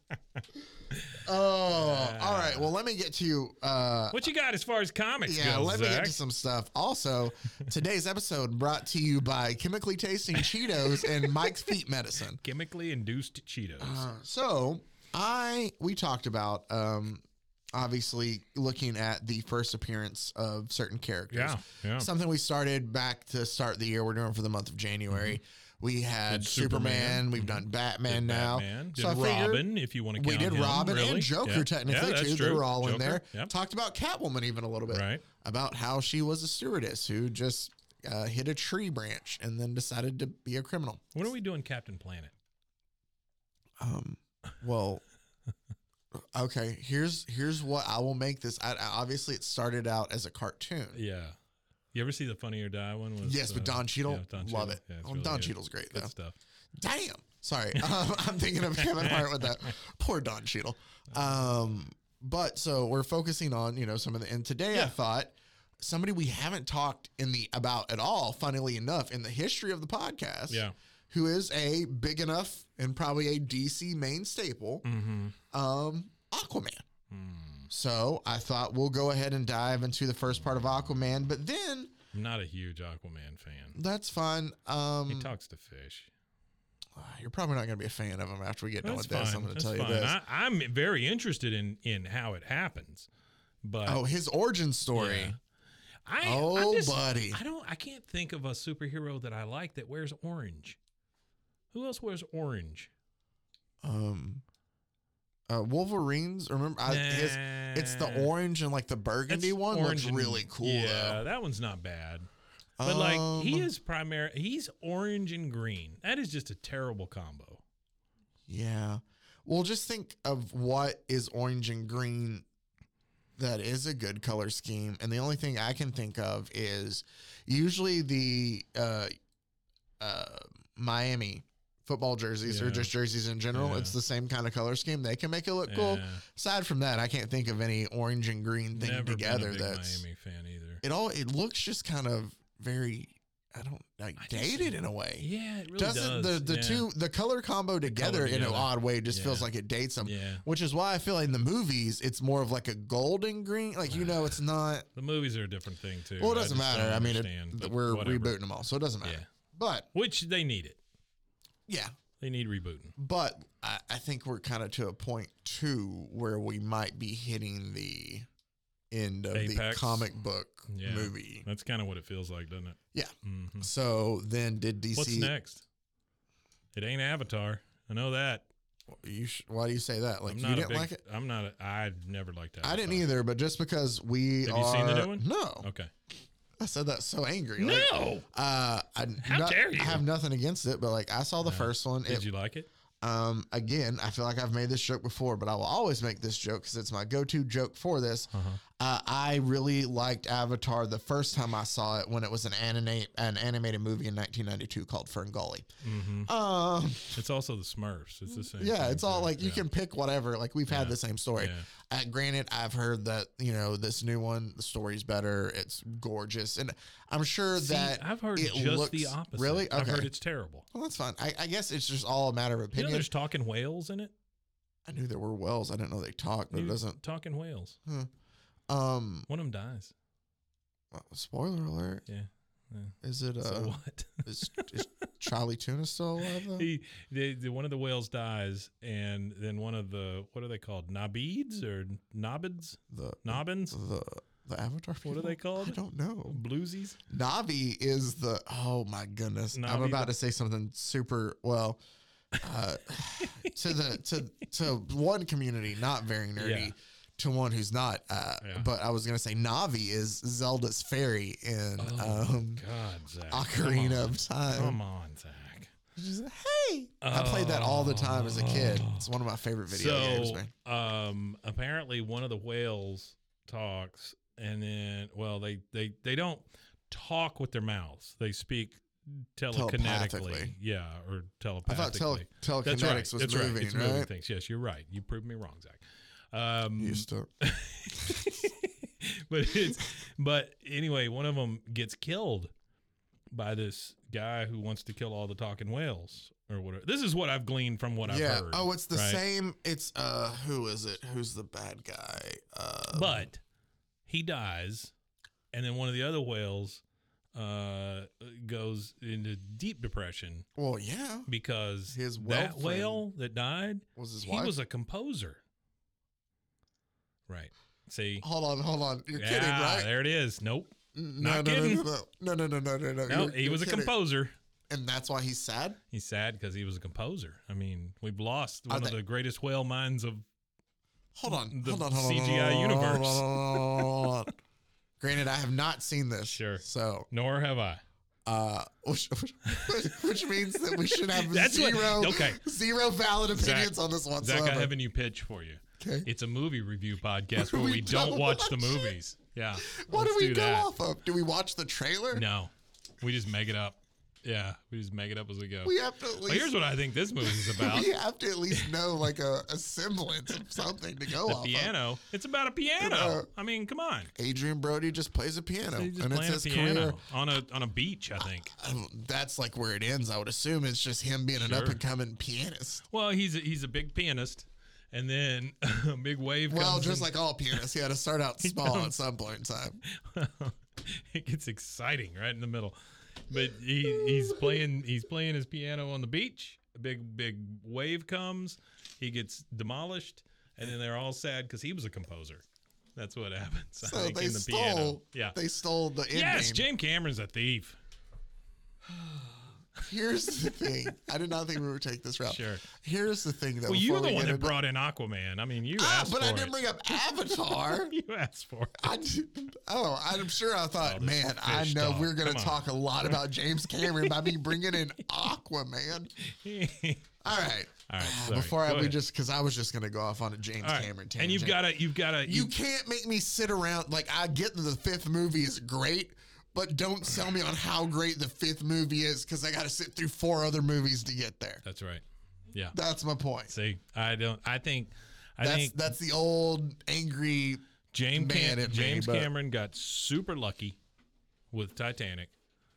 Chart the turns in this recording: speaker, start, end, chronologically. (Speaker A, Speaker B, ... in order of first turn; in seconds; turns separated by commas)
Speaker A: 0.9-1.2, Speaker B: 1.2-4.2, Speaker A: 1.7-2.7, Speaker A: 4.1-6.2, Speaker B: 5.2-12.4, Speaker A: 12.4-14.1, Speaker B: 13.8-41.1, Speaker A: 21.3-22.1, Speaker A: 25.1-25.4, Speaker A: 26.3-33.5, Speaker A: 34.9-35.2, Speaker A: 41.1-42.3, Speaker B: 43.8-45.0, Speaker B: 46.1-51.0, Speaker A: 50.9-51.4, Speaker A: 51.9-56.4, Speaker B: 53.2-56.1, Speaker B: 56.8-74.8, Speaker A: 58.8-59.7, Speaker A: 74.8-75.3, Speaker B: 75.5-76.8, Speaker A: 77.1-77.7, Speaker B: 77.7-81.9, Speaker A: 82.1-83.8, Speaker B: 83.7-85.3, Speaker A: 85.1-86.1, Speaker B: 87.0-90.2, Speaker A: 88.8-93.1, Speaker A: 93.6-94.0, Speaker B: 93.8-95.3, Speaker A: 94.9-95.4, Speaker A: 96.0-100.8, Speaker B: 96.2-97.4, Speaker A: 101.7-102.9, Speaker B: 103.8-104.4, Speaker B: 105.5-111.2, Speaker A: 106.8-108.3, Speaker A: 109.3-112.3, Speaker B: 112.8-113.7, Speaker A: 112.8-117.6, Speaker B: 118.5-122.4, Speaker B: 123.4-129.1, Speaker B: 130.0-140.0, Speaker A: 132.4-132.9, Speaker A: 133.5-133.9, Speaker A: 135.7-136.2, Speaker A: 138.7-140.8, Speaker B: 140.8-154.9, Speaker A: 144.2-146.9, Speaker A: 147.8-149.5, Speaker A: 150.0-150.4, Speaker A: 153.9-154.4, Speaker A: 154.9-158.3, Speaker B: 156.2-159.9, Speaker A: 159.9-160.8, Speaker B: 161.7-161.9, Speaker A: 162.2-162.9, Speaker B: 163.0-168.2, Speaker B: 168.9-171.4, Speaker A: 169.3-170.1, Speaker A: 170.7-173.7, Speaker B: 172.9-175.3, Speaker A: 174.9-175.6, Speaker A: 176.7-178.4, Speaker B: 178.9-181.0, Speaker A: 180.3-183.1, Speaker B: 182.6-185.7, Speaker A: 184.4-185.9, Speaker B: 186.6-192.2, Speaker A: 187.6-188.3, Speaker A: 189.2-190.0, Speaker A: 191.4-192.7, Speaker B: 193.0-205.7, Speaker A: 198.3-198.6, Speaker A: 205.8-206.3, Speaker B: 206.2-207.2, Speaker A: 207.1-209.6, Speaker B: 208.3-220.1, Speaker A: 210.7-211.7, Speaker A: 217.6-220.7, Speaker B: 220.7-223.1, Speaker A: 222.7-224.1, Speaker B: 224.8-227.0, Speaker A: 226.5-227.8, Speaker B: 228.7-229.3, Speaker A: 229.3-229.9, Speaker B: 230.9-232.0, Speaker A: 232.1-234.9, Speaker B: 233.0-236.7, Speaker A: 236.3-243.8, Speaker B: 242.9-246.4, Speaker A: 245.0-247.0, Speaker B: 247.1-251.8, Speaker A: 249.5-250.1, Speaker B: 252.4-262.6, Speaker A: 253.2-253.5, Speaker A: 256.4-256.7, Speaker A: 258.4-258.7, Speaker A: 261.8-265.7, Speaker B: 263.3-264.8, Speaker B: 265.9-270.5, Speaker A: 267.0-269.1, Speaker A: 269.7-292.5, Speaker B: 279.5-280.5, Speaker B: 281.6-284.1, Speaker B: 286.8-287.3, Speaker A: 293.3-299.2, Speaker B: 298.0-303.2, Speaker A: 302.9-303.4, Speaker A: 304.1-304.9, Speaker A: 305.5-306.8, Speaker A: 307.3-310.4, Speaker B: 310.6-311.3, Speaker A: 311.3-315.4, Speaker B: 311.9-313.0, Speaker B: 313.9-314.5, Speaker A: 317.3-318.2, Speaker B: 318.2-319.9, Speaker A: 319.1-321.8, Speaker B: 320.9-323.9, Speaker A: 323.1-324.3, Speaker B: 324.7-325.8, Speaker A: 325.9-330.2, Speaker B: 328.7-329.0, Speaker B: 331.1-334.3, Speaker A: 331.2-334.1, Speaker B: 335.0-337.1, Speaker A: 336.3-337.8, Speaker B: 338.2-344.7, Speaker A: 339.4-342.4, Speaker A: 343.3-350.7, Speaker B: 345.8-346.1, Speaker B: 347.4-348.9, Speaker B: 349.6-352.2, Speaker A: 352.1-357.9, Speaker B: 355.6-356.5, Speaker B: 357.2-361.7, Speaker A: 361.2-364.1, Speaker B: 362.8-363.3, Speaker B: 364.1-367.0, Speaker A: 365.7-368.5, Speaker B: 368.4-372.8, Speaker A: 371.4-371.8, Speaker A: 372.9-377.7, Speaker B: 376.5-379.8, Speaker A: 378.4-378.9, Speaker A: 379.9-382.8, Speaker A: 383.3-392.4, Speaker A: 392.9-395.4, Speaker B: 393.8-396.6, Speaker A: 396.1-397.8, Speaker B: 398.9-404.5, Speaker A: 402.2-402.7, Speaker A: 403.6-408.9, Speaker B: 405.8-407.9, Speaker B: 408.8-416.1, Speaker A: 410.8-414.8, Speaker A: 416.2-417.1, Speaker B: 417.2-421.6, Speaker A: 417.9-419.0, Speaker A: 420.6-422.5, Speaker B: 422.2-431.6, Speaker A: 431.6-432.8, Speaker B: 432.7-433.5, Speaker A: 433.5-435.8, Speaker B: 435.4-437.6, Speaker A: 437.9-440.8, Speaker B: 438.1-439.3, Speaker A: 441.5-442.3